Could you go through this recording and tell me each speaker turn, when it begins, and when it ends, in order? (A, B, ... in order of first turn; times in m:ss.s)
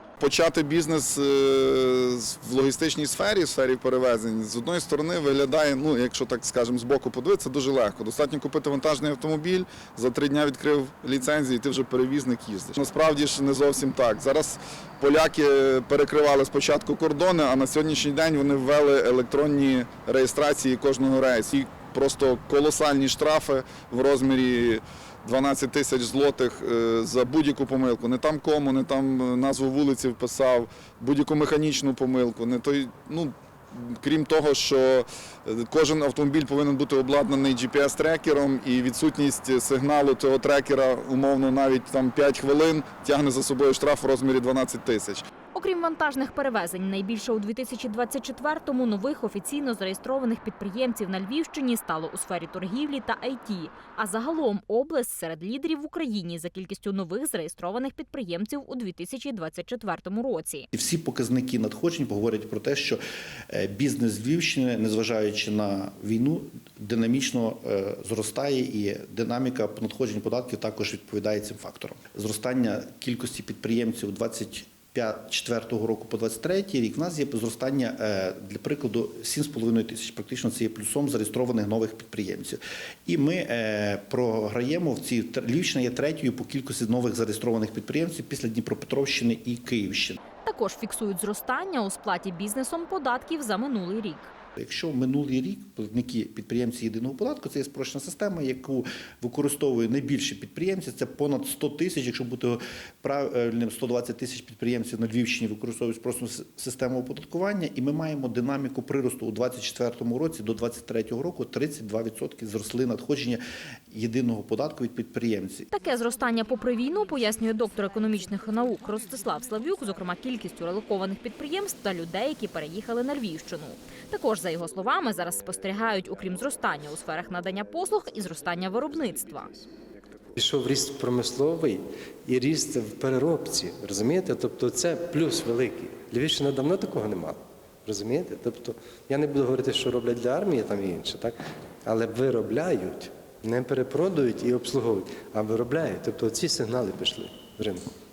0:00.2-0:45.2 A
0:45.5-1:00.7 B
1:00.7-1:30.2 C
1:30.4-1:34.3 B
1:34.6-1:55.7 C
1:55.7-2:09.5 B
2:10.4-2:27.9 D